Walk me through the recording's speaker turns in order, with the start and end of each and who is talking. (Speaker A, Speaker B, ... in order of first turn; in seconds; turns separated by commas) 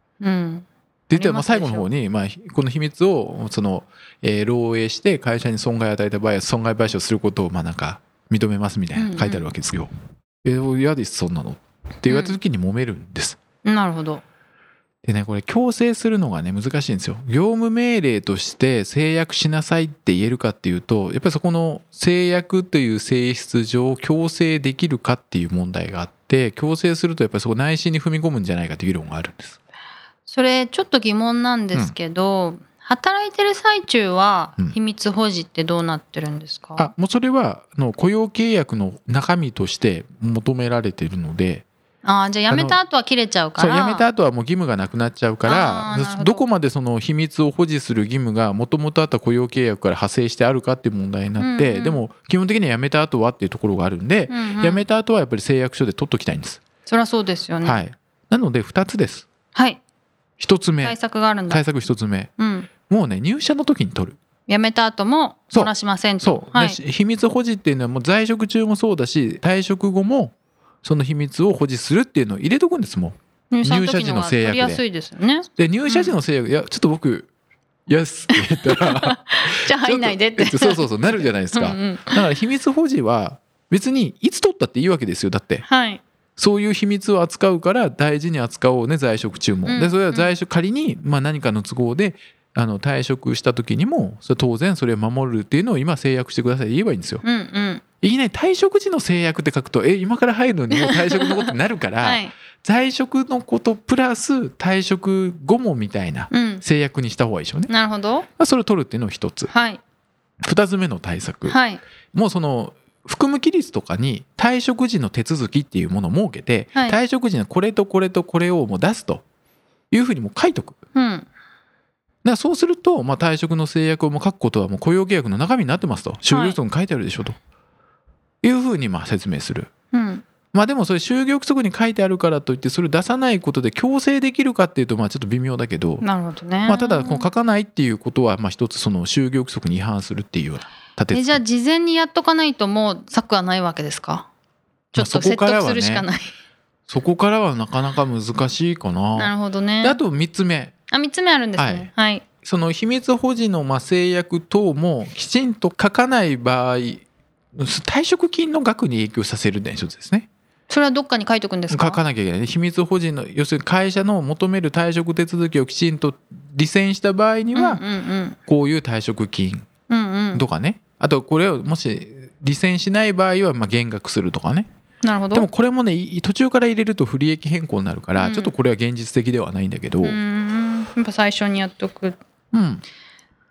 Speaker A: 0.2-1.9, Speaker B: 1.1-9.9, Speaker A: 8.9-9.5, Speaker B: 10.4-13.4, Speaker A: 12.1-12.4, Speaker A: 13.6-14.2, Speaker B: 15.0-29.6, Speaker A: 30.3-36.9, Speaker B: 36.8-41.6, Speaker A: 42.0-44.1, Speaker B: 42.5-42.8, Speaker B: 43.6-56.6, Speaker A: 45.4-46.4, Speaker A: 51.4-52.0, Speaker A: 54.3-54.9, Speaker A: 56.9-57.8, Speaker B: 57.6-59.3, Speaker A: 59.5-59.8, Speaker B: 60.4-61.0, Speaker A: 60.8-61.6, Speaker B: 61.5-62.3, Speaker A: 62.4-62.7, Speaker B: 62.8-64.2, Speaker A: 64.5-66.8, Speaker B: 65.5-74.8, Speaker A: 73.5-76.2, Speaker B: 75.6-77.3, Speaker B: 77.9-85.7, Speaker A: 78.3-82.2, Speaker A: 85.6-86.0, Speaker B: 86.4-97.2, Speaker A: 89.7-90.3, Speaker A: 97.2-97.8, Speaker B: 98.0-107.7, Speaker A: 100.7-102.3, Speaker A: 106.3-106.6, Speaker A: 107.7-108.3, Speaker B: 108.4-109.5, Speaker A: 109.5-109.8, Speaker B: 110.4-111.6, Speaker A: 111.5-111.8, Speaker B: 112.1-119.2, Speaker A: 116.7-117.0, Speaker B: 119.9-120.8, Speaker A: 120.9-121.3, Speaker B: 122.2-127.3, Speaker A: 126.3-126.6, Speaker B: 128.4-129.7, Speaker A: 129.9-130.3, Speaker B: 130.5-136.1, Speaker A: 136.0-137.3, Speaker B: 136.7-141.4, Speaker A: 141.1-144.3, Speaker A: 144.9-146.3, Speaker B: 144.9-146.1, Speaker B: 146.9-149.3, Speaker A: 149.2-150.0, Speaker B: 149.8-150.7, Speaker A: 150.9-152.3, Speaker B: 151.6-151.9, Speaker B: 152.4-160.3, Speaker A: 160.7-162.0, Speaker B: 161.7-167.8, Speaker A: 167.6-168.4, Speaker B: 168.5-169.7, Speaker A: 169.9-170.4, Speaker B: 170.3-174.7, Speaker A: 175.0-175.5, Speaker B: 175.3-180.2, Speaker A: 178.2-178.6, Speaker A: 180.0-182.2, Speaker B: 182.5-182.8